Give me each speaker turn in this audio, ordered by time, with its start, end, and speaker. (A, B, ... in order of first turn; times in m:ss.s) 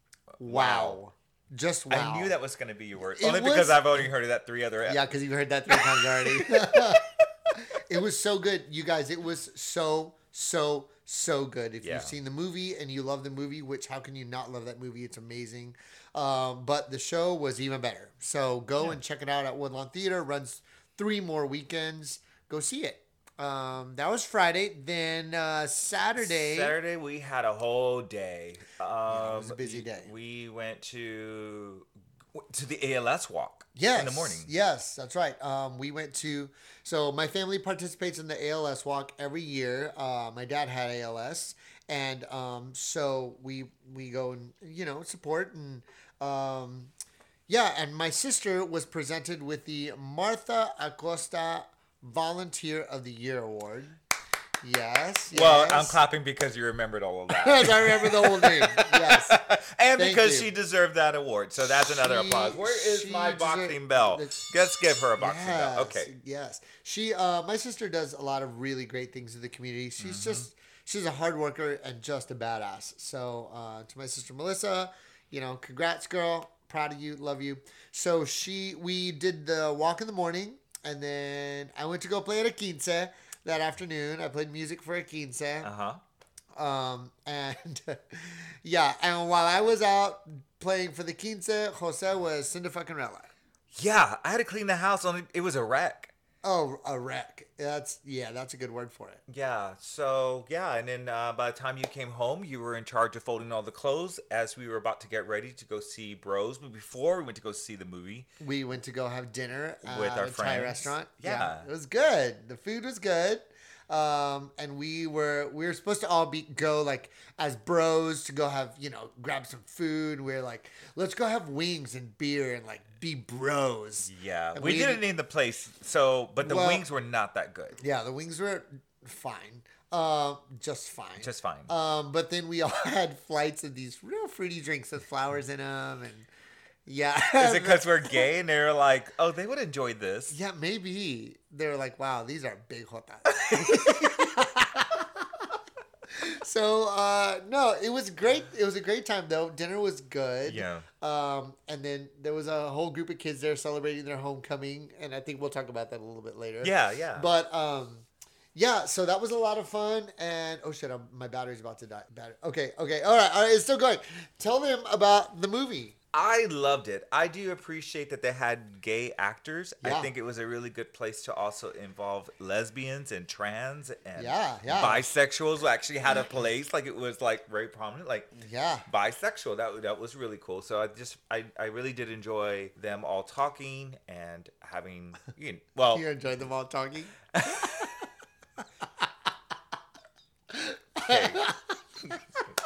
0:00.4-0:01.0 A
0:00.4-0:02.4 B
0:01.9-0:05.1 A
0:03.0-0:04.1 B
0:04.8-0:26.8 B
0:05.7-0:07.1 A
0:11.8-0:12.1 A
0:26.2-0:34.5 A
0:29.1-0:30.1 B
0:33.7-0:46.9 B
0:47.5-0:54.0 B
0:54.6-0:56.0 B
0:55.3-1:06.1 A
0:57.3-0:59.4 B
1:00.0-1:00.5 B
1:01.6-1:04.5 B
1:05.2-1:25.7 B
1:10.0-1:10.4 A
1:25.6-1:26.0 A
1:26.5-1:33.3 B
1:33.7-1:36.1 A
1:36.4-1:39.2 B
1:39.3-1:48.3 A
1:48.4-2:05.0 B
1:49.8-1:51.7 A
2:04.0-2:07.8 A
2:06.4-2:06.8 B
2:07.8-2:16.3 B
2:11.2-2:11.7 A
2:16.8-2:18.2 B
2:17.4-2:20.3 A
2:20.3-2:25.3 B
2:23.4-2:24.2 A
2:26.1-2:46.0 B
2:30.4-2:30.8 A
2:36.6-2:37.3 A
2:46.1-2:58.3 A
2:49.8-2:50.1 B
2:54.2-2:55.1 B
2:56.0-2:56.5 B
2:58.4-2:58.8 B
2:58.9-3:06.0 A
3:05.9-3:07.2 B
3:07.3-3:07.9 A
3:10.5-3:11.6 B
3:11.0-3:11.5 A